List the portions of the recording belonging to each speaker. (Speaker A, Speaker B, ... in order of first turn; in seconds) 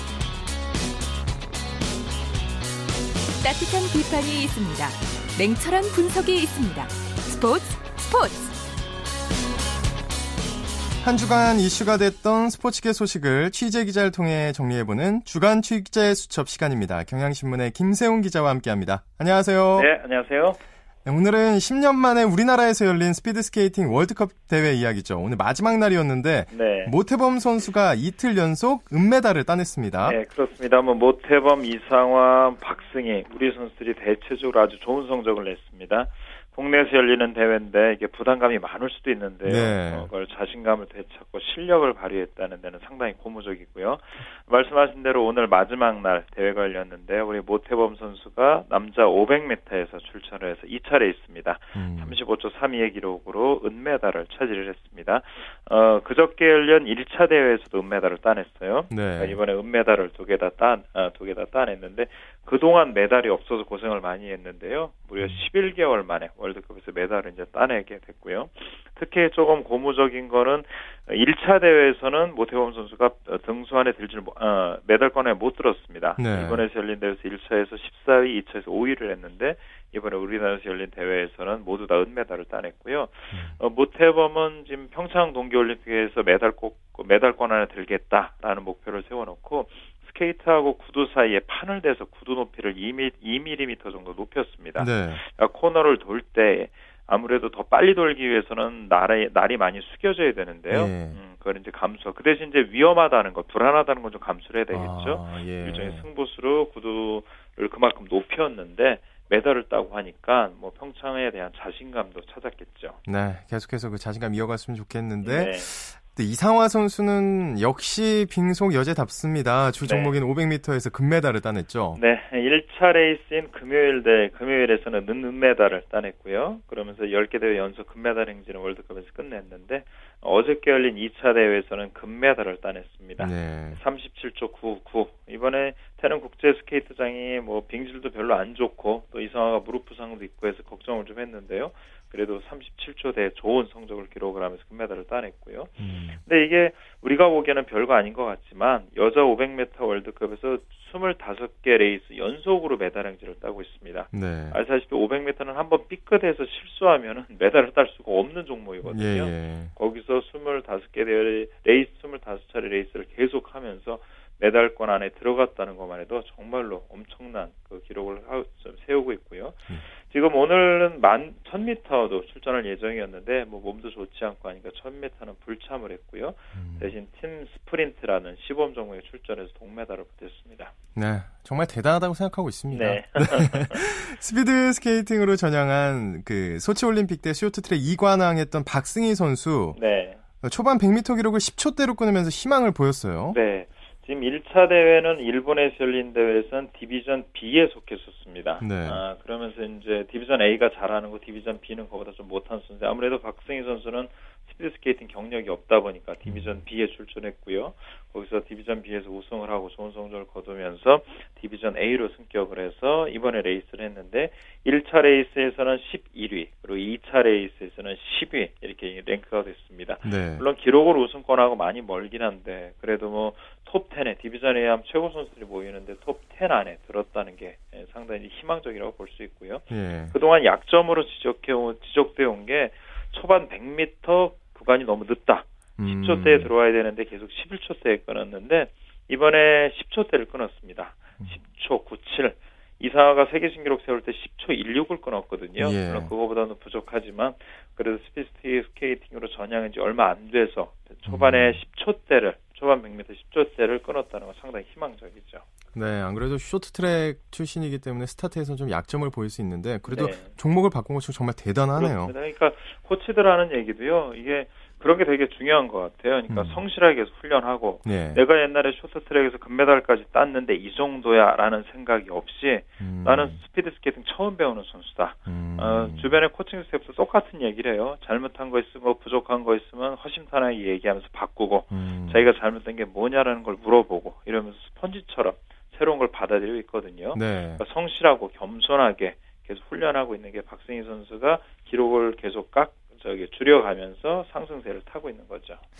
Speaker A: 3.4-8.5
Speaker B: 11.0-19.9, 21.0-30.2, 39.5-40.1, 51.8-52.2, 58.9-59.4, 76.2-76.6, 94.8-95.2, 100.7-101.2, 104.7-106.0, 113.0-122.0, 133.2-133.8, 145.8-146.2, 154.1-154.6, 158.8-159.7, 176.6-176.9, 180.9-189.8, 190.4-193.4, 198.6-199.0, 206.2-206.6, 220.0-220.4, 229.7-230.1, 235.8-236.5, 245.6-246.1, 251.1-251.6, 255.7-262.1, 266.3-266.6, 267.8-268.2, 272.8-273.4, 275.3-276.1, 281.7-282.2, 287.1-287.6
Speaker C: 19.7-20.6, 26.5-26.9, 30.0-113.0, 115.2-115.7, 119.8-120.1, 122.0-180.7, 182.7-183.9, 189.7-190.2, 193.3-255.4, 259.9-260.3, 261.7-295.6